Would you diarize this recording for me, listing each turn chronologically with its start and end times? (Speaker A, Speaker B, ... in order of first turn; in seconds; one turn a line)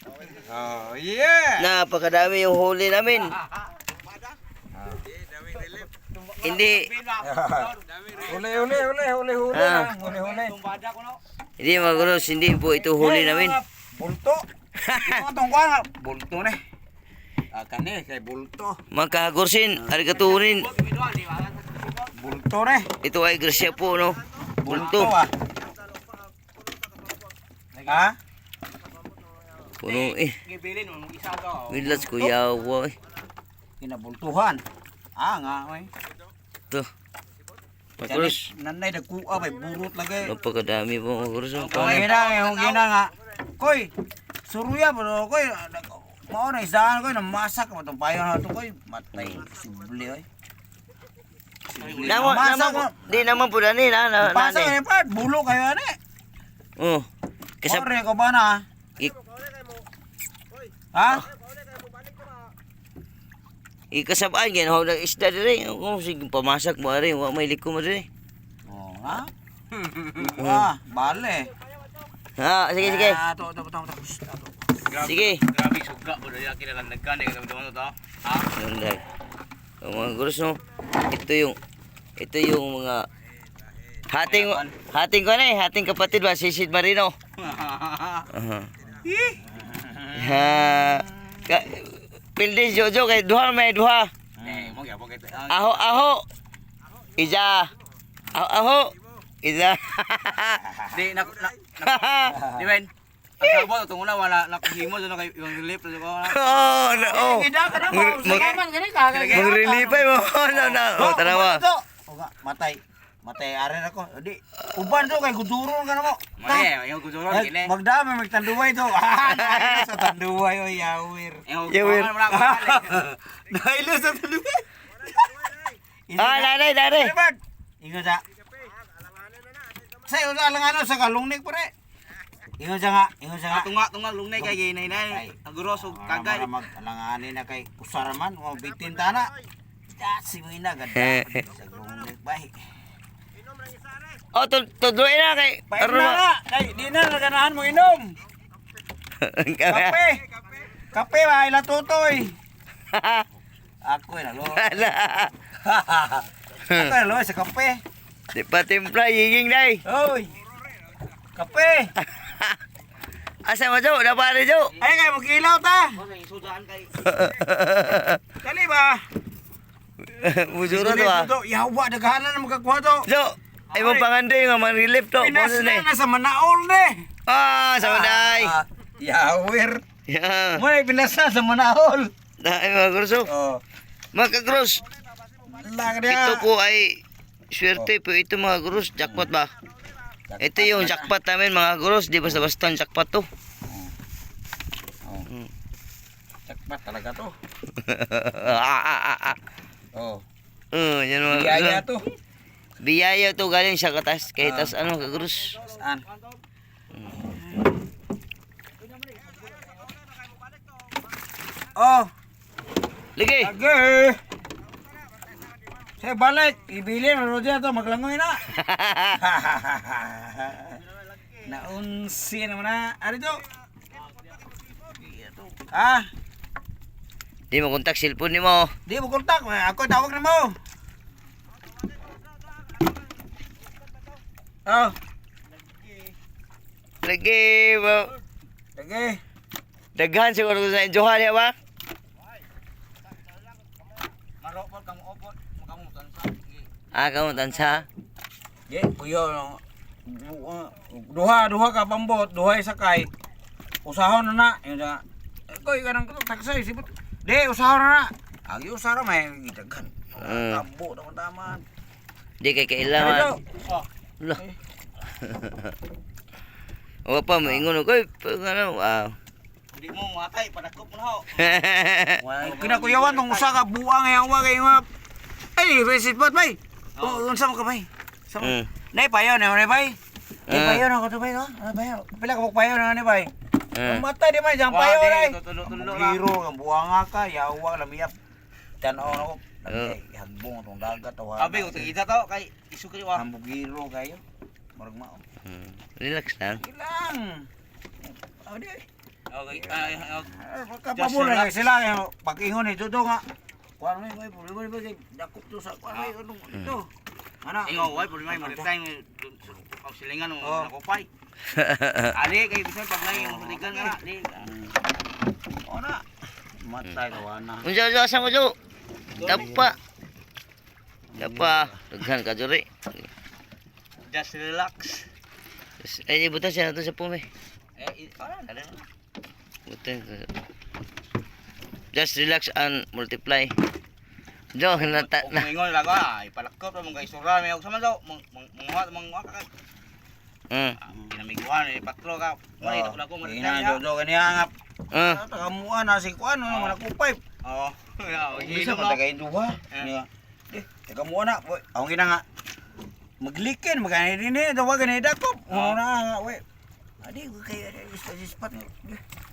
Speaker A: 0.5-1.7
Speaker B: 1.6-3.3
Speaker C: 6.2-8.5
Speaker B: 6.4-6.9
Speaker A: 7.2-10.6
Speaker B: 9.5-9.9
Speaker C: 10.0-11.2
Speaker B: 11.6-13.6
Speaker A: 13.0-14.4
Speaker B: 14.8-15.2
Speaker A: 15.0-16.6
Speaker C: 17.5-18.5
Speaker A: 18.2-18.7
Speaker B: 18.9-20.7
Speaker C: 20.1-22.0
Speaker A: 22.1-22.9
Speaker B: 23.0-25.1
Speaker A: 24.6-25.3
Speaker C: 24.7-25.1
Speaker C: 27.7-28.0
Speaker A: 27.9-28.2
Speaker B: 29.8-30.3
Speaker C: 29.8-32.3
Speaker B: 31.7-32.9
Speaker A: 33.8-34.6
Speaker A: 35.2-35.9
Speaker B: 38.0-38.4
Speaker A: 38.0-40.3
Speaker B: 40.2-42.1
Speaker C: 41.5-42.9
Speaker A: 41.7-43.9
Speaker A: 44.5-50.2
Speaker A: 51.7-53.4
Speaker C: 51.8-52.4
Speaker B: 52.0-54.7
Speaker A: 54.2-56.0
Speaker B: 56.8-57.1
Speaker B: 57.6-57.9
Speaker A: 57.6-58.6
Speaker A: 60.9-61.3
Speaker B: 63.9-68.1
Speaker A: 68.7-69.3
Speaker C: 69.8-70.2
Speaker A: 70.2-71.5
Speaker B: 70.4-70.7
Speaker B: 72.4-73.2
Speaker A: 72.8-74.5
Speaker C: 74.9-78.5
Speaker B: 75.0-75.4
Speaker B: 78.5-79.0
Speaker B: 79.8-80.6
Speaker B: 81.1-81.6
Speaker B: 82.2-83.0
Speaker B: 84.1-87.1
Speaker C: 84.2-84.8
Speaker C: 87.4-88.3
Speaker B: 88.3-88.7
Speaker A: 88.9-91.5
Speaker B: 90.2-94.1
Speaker A: 94.4-94.8
Speaker C: 94.4-95.8
Speaker B: 95.5-96.2
Speaker B: 97.2-97.7
Speaker B: 98.3-100.6
Speaker A: 100.6-101.0
Speaker C: 100.9-106.8
Speaker B: 101.8-102.3
Speaker A: 102.3-102.7
Speaker B: 106.2-108.6
Speaker A: 106.8-116.7
Speaker C: 108.3-109.5
Speaker B: 109.3-111.6
Speaker C: 116.4-117.7
Speaker A: 117.3-121.4
Speaker B: 119.3-119.8
Speaker C: 121.5-123.1
Speaker B: 121.7-122.2
Speaker A: 122.3-124.6
Speaker A: 126.1-128.2
Speaker B: 126.2-127.1
Speaker A: 130.0-131.7
Speaker A: 132.6-133.7
Speaker C: 133.5-136.5
Speaker A: 134.4-139.3
Speaker A: 139.9-142.5
Speaker B: 140.9-141.3
Speaker B: 144.3-146.2
Speaker A: 145.7-148.1
Speaker B: 149.2-150.0
Speaker A: 149.7-150.2
Speaker A: 150.9-152.3
Speaker B: 152.9-153.3
Speaker A: 153.8-154.9
Speaker B: 154.5-155.3
Speaker A: 155.6-157.8
Speaker B: 156.7-156.9
Speaker B: 158.3-159.8
Speaker A: 159.8-160.3
Speaker A: 161.3-161.9
Speaker B: 162.1-162.5
Speaker B: 163.4-164.7
Speaker A: 164.8-166.0
Speaker C: 165.9-167.0
Speaker B: 167.0-168.2
Speaker A: 168.4-169.0
Speaker B: 170.1-171.3
Speaker A: 170.7-173.1
Speaker B: 173.1-175.9
Speaker C: 173.7-174.0
Speaker A: 173.7-174.1
Speaker A: 175.2-177.1
Speaker B: 177.2-178.5
Speaker A: 177.8-179.8
Speaker B: 180.1-180.6
Speaker A: 180.5-182.1
Speaker B: 182.4-183.3
Speaker A: 183.2-183.6
Speaker B: 184.1-184.8
Speaker A: 185.5-186.5
Speaker B: 186.1-187.0
Speaker B: 187.5-189.5
Speaker A: 189.0-189.3
Speaker A: 190.3-191.1
Speaker B: 190.4-193.3
Speaker A: 193.7-193.9
Speaker A: 196.5-197.3
Speaker B: 197.8-199.4
Speaker A: 199.9-200.2
Speaker B: 200.7-201.8
Speaker A: 201.2-202.0
Speaker B: 202.8-205.6
Speaker A: 204.4-204.7
Speaker A: 205.6-206.0
Speaker A: 207.2-207.7
Speaker A: 211.7-212.1
Speaker B: 213.2-213.5
Speaker A: 213.4-214.2
Speaker A: 216.0-218.5
Speaker B: 218.5-219.2
Speaker A: 219.1-220.8
Speaker A: 221.4-223.4
Speaker A: 225.0-226.1
Speaker B: 227.5-228.7
Speaker A: 228.8-230.5
Speaker A: 234.7-234.9
Speaker B: 237.0-238.1
Speaker A: 238.8-239.2
Speaker B: 239.9-241.5
Speaker C: 244.4-246.7
Speaker B: 246.9-247.8
Speaker A: 248.7-253.1
Speaker A: 253.8-261.6
Speaker B: 260.2-260.6
Speaker B: 262.4-263.3
Speaker A: 262.9-263.4
Speaker B: 265.2-265.7
Speaker B: 267.1-269.1
Speaker A: 267.4-267.7
Speaker C: 269.7-271.6
Speaker B: 271.4-272.2
Speaker C: 272.2-273.6
Speaker A: 272.3-274.9
Speaker A: 275.6-280.0
Speaker C: 277.0-277.2
Speaker B: 278.4-278.7
Speaker B: 280.5-280.8
Speaker A: 280.5-283.3
Speaker B: 283.7-284.0
Speaker A: 283.8-288.1
Speaker C: 284.7-286.2
Speaker A: 288.8-291.9
Speaker C: 291.4-293.2
Speaker A: 293.1-294.2
Speaker A: 294.8-295.2
Speaker B: 295.4-296.6
Speaker A: 296.6-297.5
Speaker A: 298.1-298.8
Speaker C: 299.3-300.3
Speaker A: 299.5-303.2
Speaker C: 300.9-301.5
Speaker A: 303.8-306.9
Speaker A: 307.4-308.7
Speaker C: 307.6-311.1
Speaker A: 310.4-310.7
Speaker B: 311.5-312.1
Speaker C: 312.1-314.4
Speaker A: 313.1-314.8
Speaker A: 315.6-316.0
Speaker A: 316.6-317.7
Speaker B: 317.6-318.5
Speaker C: 319.1-319.7
Speaker B: 319.2-319.8
Speaker A: 321.1-321.7
Speaker B: 321.2-322.9
Speaker C: 324.1-325.1
Speaker B: 325.8-327.2
Speaker C: 327.8-328.8
Speaker B: 329.7-330.3
Speaker B: 331.9-333.5
Speaker B: 334.5-335.5
Speaker C: 334.7-339.5
Speaker B: 340.5-340.8
Speaker C: 340.9-343.8
Speaker A: 342.6-347.2
Speaker B: 344.9-345.2
Speaker C: 346.5-346.8
Speaker C: 347.4-349.0
Speaker A: 348.3-352.2
Speaker A: 353.2-356.4
Speaker C: 355.5-355.8
Speaker A: 357.0-359.0